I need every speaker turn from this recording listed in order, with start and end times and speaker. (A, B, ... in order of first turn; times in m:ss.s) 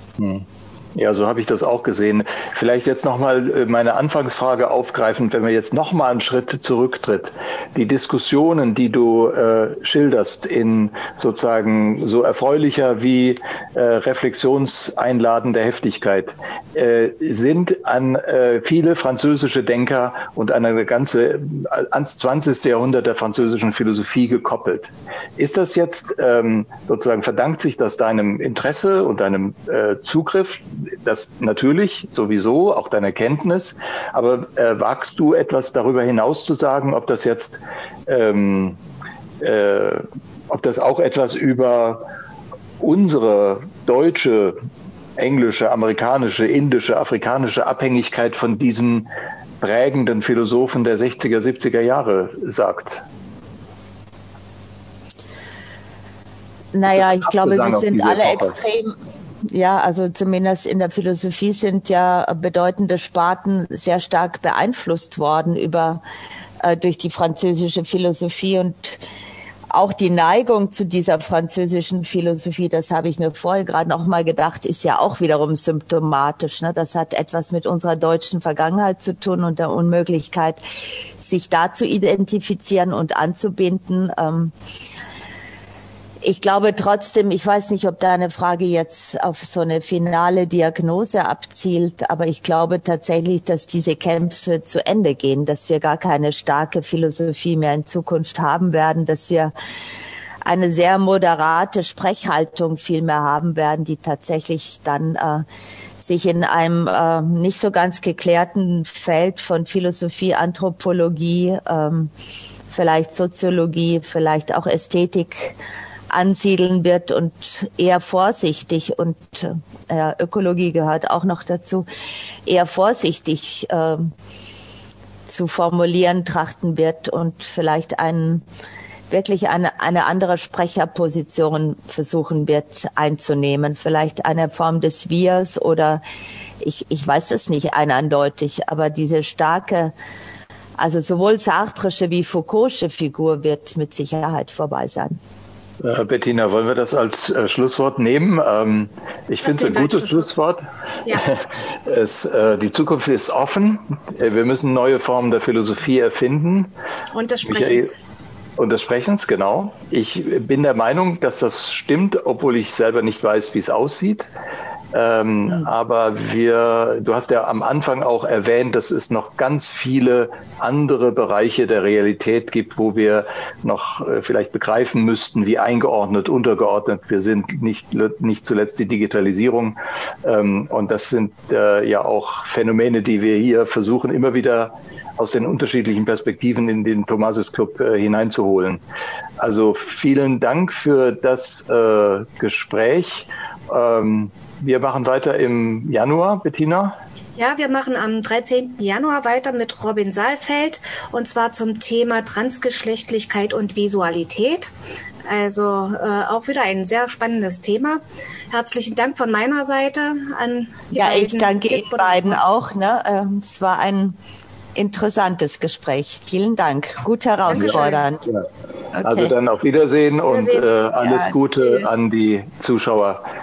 0:00.2-0:38.8 A
0:39.4-0:42.1 A
0:42.8-0:44.6 A
0:45.2-0:49.1 A
0:49.6-0:53.0 A
0:56.7-1:06.0 B
0:56.9-0:58.6 A
1:06.6-1:09.0 B
1:09.7-1:24.5 B
1:26.2-1:39.5 B
1:40.4-1:45.4 B
1:46.0-1:52.1 B
1:52.7-1:55.6 B
1:56.1-2:01.9 B
2:02.5-2:04.1 B
2:05.3-2:08.5 B
2:09.1-2:16.0 B
2:16.6-2:19.9 B
2:20.8-2:25.2 B
2:25.8-2:36.7 A
2:29.4-2:30.3 C
2:37.1-2:37.9 C
2:37.5-2:37.9 A
2:38.6-2:44.3 A
2:44.9-3:08.8 A
3:09.4-3:17.0 A
3:17.4-3:24.7 C
3:25.2-3:32.4 C
3:30.9-3:34.2 B
3:34.8-3:38.3 B
3:37.5-3:38.0 C
3:37.6-3:38.5 A
3:38.9-3:39.3 B
3:39.0-3:43.2 A
3:40.3-3:40.8 C
3:41.0-3:41.9 B